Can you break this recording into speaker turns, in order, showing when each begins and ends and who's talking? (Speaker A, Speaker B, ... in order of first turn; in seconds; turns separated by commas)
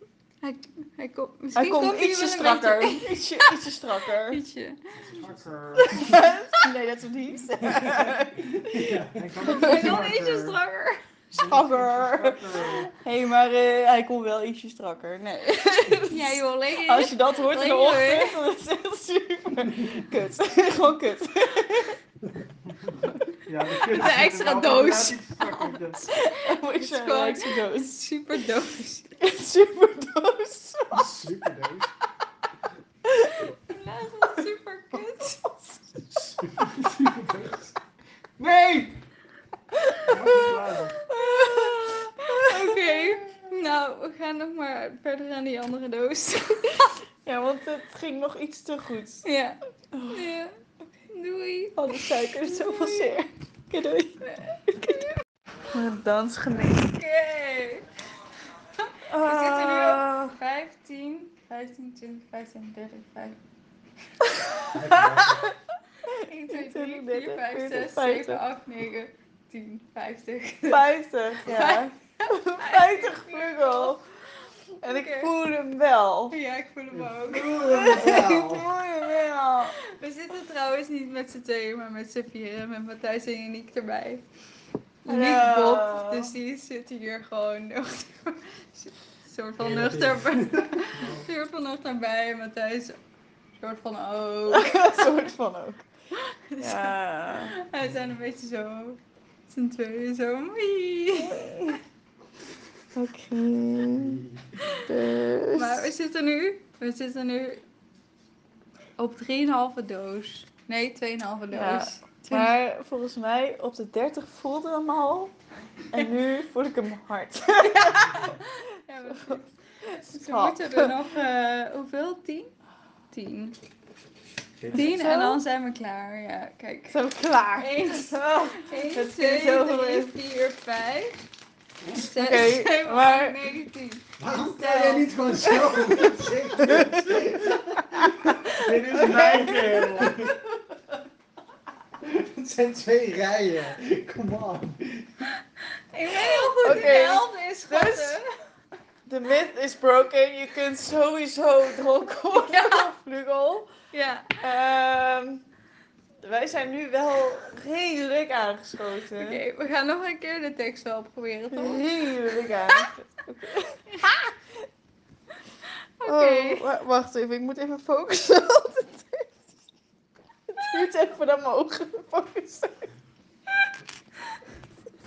Speaker A: 0.4-3.5, Speaker B: 1.6-4.4, Speaker A: 4.3-5.0, Speaker C: 5.0-6.3, Speaker B: 5.8-10.1, Speaker C: 8.6-10.6, Speaker A: 9.4-11.0, Speaker B: 11.3-22.0, Speaker C: 11.5-12.9, Speaker A: 16.1-18.4, Speaker C: 23.5-26.0, Speaker A: 23.6-29.1, Speaker B: 23.9-24.3, Speaker B: 26.1-28.0, Speaker B: 29.2-31.3, Speaker C: 30.9-31.9, Speaker A: 33.7-35.4, Speaker C: 36.2-37.7, Speaker C: 38.4-38.9, Speaker B: 40.0-43.3, Speaker C: 40.1-40.9, Speaker A: 41.1-47.0, Speaker B: 47.3-49.3, Speaker A: 49.2-49.6, Speaker B: 49.9-50.4, Speaker A: 50.1-53.3, Speaker B: 51.8-54.2, Speaker A: 54.2-55.1, Speaker B: 55.7-56.9, Speaker A: 56.8-57.9, Speaker A: 58.8-63.4, Speaker B: 59.1-60.4, Speaker B: 64.7-65.5, Speaker C: 64.7-65.4, Speaker A: 66.1-70.9, Speaker B: 66.5-68.4, Speaker B: 70.7-74.0, Speaker A: 71.5-74.0, Speaker B: 74.8-76.4, Speaker A: 74.8-75.3, Speaker A: 76.3-78.3, Speaker C: 76.9-78.7, Speaker B: 77.7-79.8, Speaker A: 79.6-84.2, Speaker A: 85.0-93.0, Speaker B: 85.1-86.3, Speaker C: 89.6-91.3, Speaker A: 93.6-95.3, Speaker B: 94.5-95.8, Speaker A: 96.2-101.5, Speaker B: 96.6-97.6, Speaker B: 101.2-101.8, Speaker B: 103.0-104.2, Speaker B: 104.9-105.9, Speaker A: 105.5-107.6, Speaker A: 109.0-112.6, Speaker B: 111.5-115.3, Speaker B: 115.9-118.3, Speaker A: 117.6-119.5, Speaker B: 120.0-121.0, Speaker A: 120.1-122.5, Speaker A: 123.1-123.6, Speaker B: 124.7-125.4, Speaker A: 124.7-131.2, Speaker B: 126.9-130.2, Speaker A: 131.9-136.0, Speaker B: 132.0-133.4, Speaker C: 134.2-140.4, Speaker B: 134.6-135.1, Speaker B: 136.6-137.0, Speaker B: 138.2-140.3, Speaker C: 142.0-145.2, Speaker A: 145.9-148.3, Speaker B: 146.2-148.2, Speaker B: 149.1-153.7, Speaker A: 152.4-152.9, Speaker A: 153.9-154.5, Speaker B: 154.4-155.4, Speaker B: 156.2-159.4, Speaker A: 159.2-162.9, Speaker B: 161.5-164.3, Speaker A: 166.0-166.7, Speaker B: 166.1-169.4, Speaker B: 170.5-172.9